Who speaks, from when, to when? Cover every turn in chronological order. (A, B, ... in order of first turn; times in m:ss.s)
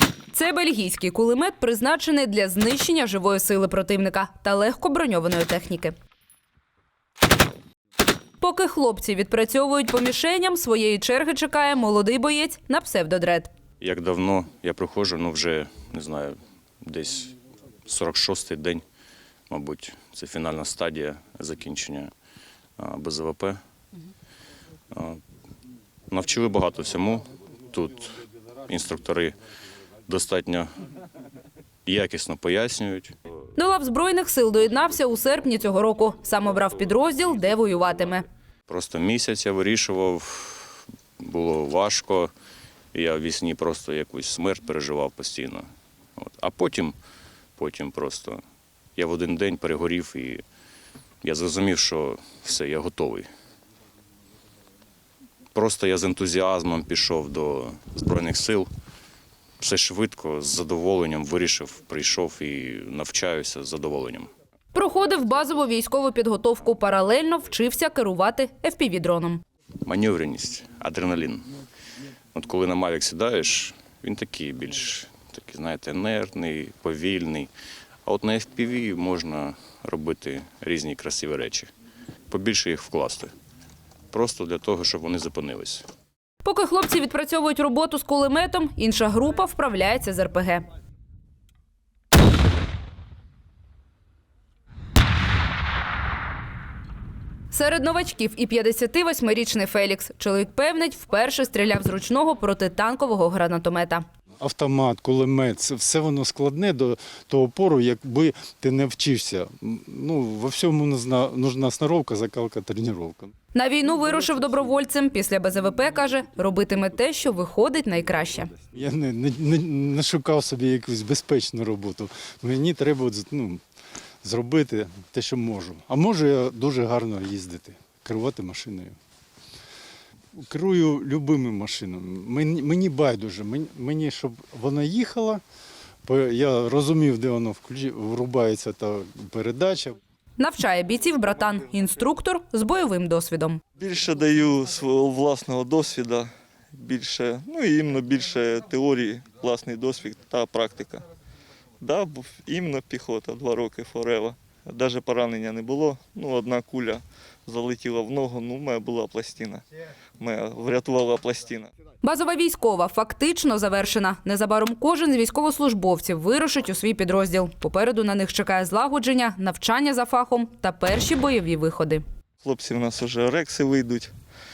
0:00.3-0:06.0 A
0:08.4-0:13.5 A
0:13.8-0:17.3 B
0:17.8-0:18.8 B
0:19.5-0:22.1 B
0:22.8-0:23.6 B
0:24.9-0:25.2 B
0:26.1-0:28.1 B
0:28.7-0:29.4 B
0:30.1-0:30.7 B
0:31.9-0:33.1 B
0:33.6-0:38.2 A
0:38.7-0:42.3 B
0:42.9-0:47.0 B
0:47.6-0:48.4 B
0:49.0-0:50.4 B
0:51.2-0:53.3 B
0:55.5-0:58.7 B
0:59.6-1:04.3 B
1:04.7-1:09.4 A
1:09.8-1:11.5 B
1:12.3-1:17.5 B
1:18.0-1:21.7 B
1:22.3-1:23.3 B
1:24.1-1:25.9 B
1:26.4-1:30.6 A
1:37.5-1:44.0 A
1:44.4-1:53.3 C
1:53.5-1:58.5 A
1:58.7-2:03.6 C
2:04.2-2:09.0 C
2:10.4-2:15.4 C
2:16.0-2:20.0 C
2:20.4-2:23.6 A
2:23.8-2:31.0 D
2:31.8-2:39.6 D
2:40.2-2:41.7 D
2:42.0-2:52.0 A
2:52.4-2:54.1 D